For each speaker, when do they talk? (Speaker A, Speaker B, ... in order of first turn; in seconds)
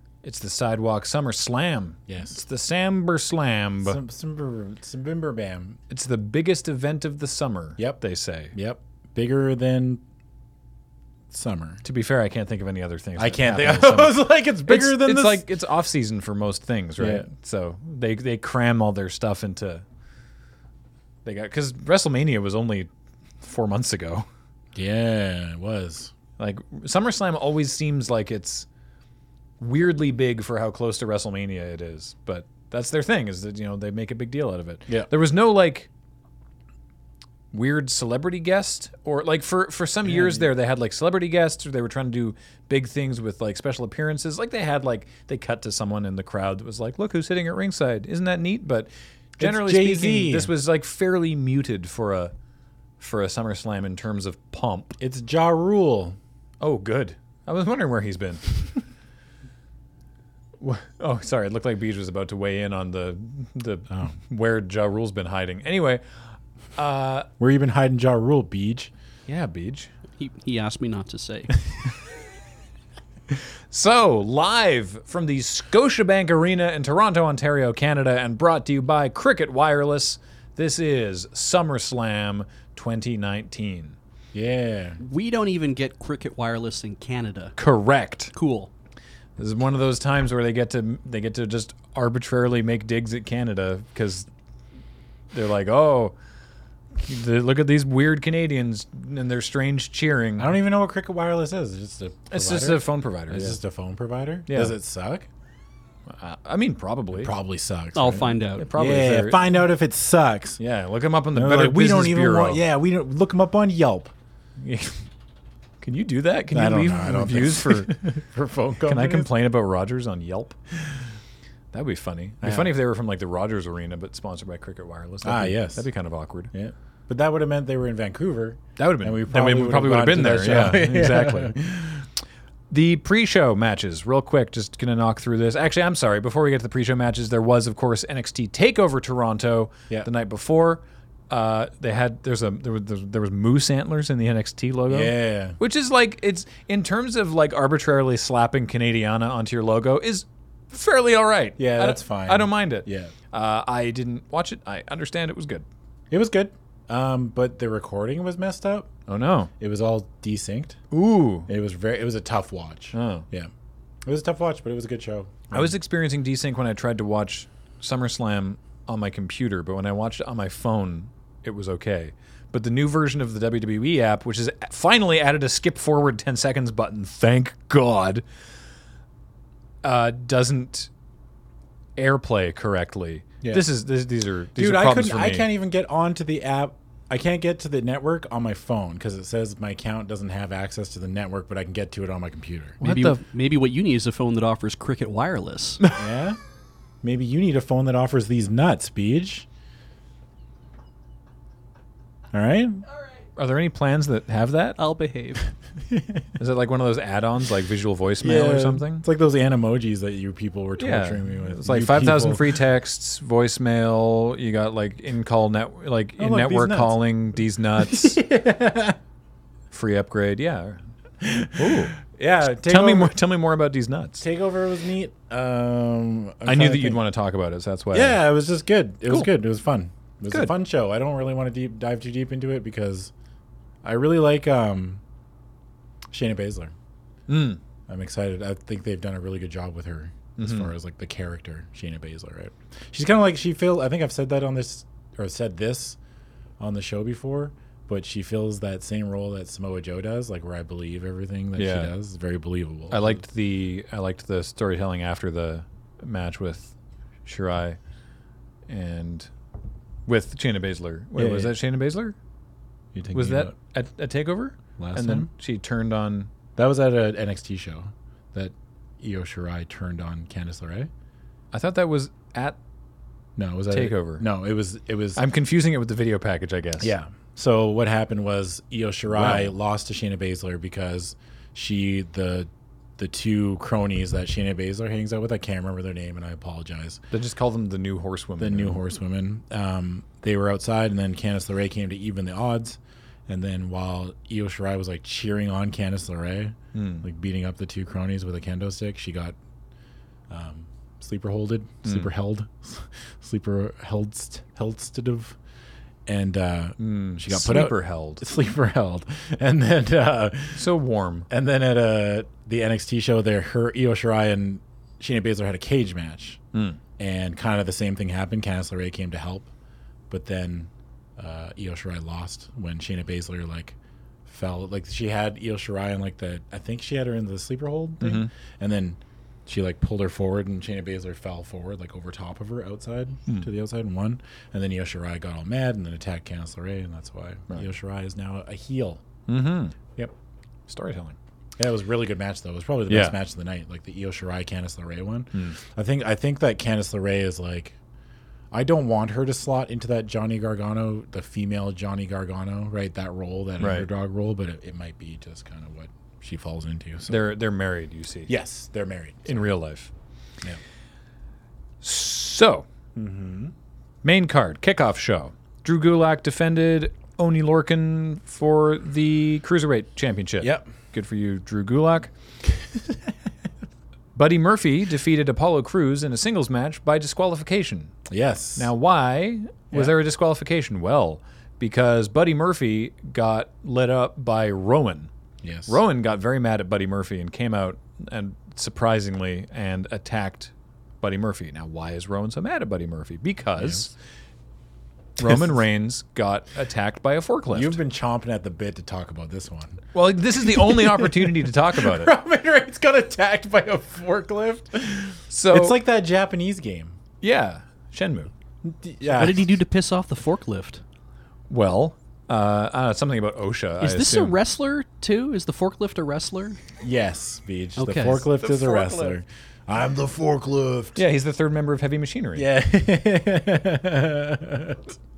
Speaker A: 0.2-4.0, 5.9-8.5, 11.8-19.8, 21.2-22.9, 23.4-24.3, 26.4-28.7, 29.6-35.9, 37.5-52.3, 53.0-55.0, 56.6-58.6, 60.6-66.0, 66.8-67.3, 69.3-69.9, 73.7-84.0, 87.6-88.3, 89.4-94.3, 95.3-96.1, 97.0-100.5, 102.3-103.6, 104.5-104.7, 106.1-107.3, 108.6-109.4, 110.6-112.6, 114.6-115.0, 115.8-118.0, 118.8-120.6, 121.7-126.5, 128.8-131.6, 132.7-155.7, 159.1-159.5, 160.9-161.5, 162.9-163.3, 165.5-178.2, 179.8-180.9, 182.0-185.5, 192.8-193.2, 203.3-204.8, 206.4-209.0, 210.8-218.2, 219.7-220.8, 221.5-224.2, 226.4-228.2, 237.3-237.6, 240.4-240.7, 251.6-251.9, 252.9-256.7, 257.2-257.8, 258.7-259.3, 260.1-262.1, 263.1-266.3, 271.5-272.6, 273.7-274.2, 275.1-276.9, 279.1-279.5, 287.1-288.8, 296.7-297.0, 306.8-308.2, 310.5-311.3, 316.5-316.8, 328.0-328.3, 339.3-339.8, 340.7-341.2, 342.9-343.1, 353.6-353.9, 357.1-358.3, 359.2-359.9, 361.8-362.7, 364.0-372.1, 374.1-377.9, 378.6-385.1, 385.7-393.9, 395.2-397.8, 399.9-402.1, 405.3-405.8, 407.2-408.3, 411.5-414.4, 418.4-419.2, 420.9-422.5
Speaker B: 2.1-2.4, 3.8-5.8, 8.5-10.0, 11.3-11.8, 13.2-15.4, 17.0-17.3, 24.7-26.1, 40.1-40.5, 49.4-50.5, 55.0-56.2, 67.4-68.9, 84.3-85.0, 100.4-105.3, 107.1-110.6, 111.3-114.1, 116.5-119.3, 122.4-122.7, 125.2-125.9, 126.5-132.1, 144.9-145.6, 151.6-153.1, 156.1-158.9, 159.6-160.8, 161.5-163.5, 164.0-165.7, 184.6-192.8, 195.9-196.4, 197.0-199.4, 202.3-202.8, 205.9-206.2, 208.2-212.6, 216.2-217.0, 217.8-219.0, 221.2-223.1, 224.2-227.0, 227.9-233.1, 233.8-235.0, 236.1-236.7, 237.9-246.0, 246.6-253.2, 261.1-261.5, 262.9-263.5, 264.8-265.3, 266.6-270.9, 273.4-275.2, 276.8-287.0, 288.4-299.4, 300.3-305.4, 306.1-310.6, 311.3-316.4, 317.0-319.5, 320.1-339.0, 341.6-347.8, 348.5-357.2, 358.3-359.4, 362.9-363.5, 370.4-370.7, 378.1-378.7, 385.4-385.8, 397.5-399.8, 400.4-406.9, 408.6-409.6, 416.8-421.0, 422.4-424.9
Speaker C: 70.2-71.5, 85.0-87.5, 88.3-88.7, 107.9-108.7, 192.8-195.8, 204.8-205.5, 409.1-410.8, 413.8-416.6, 417.8-418.2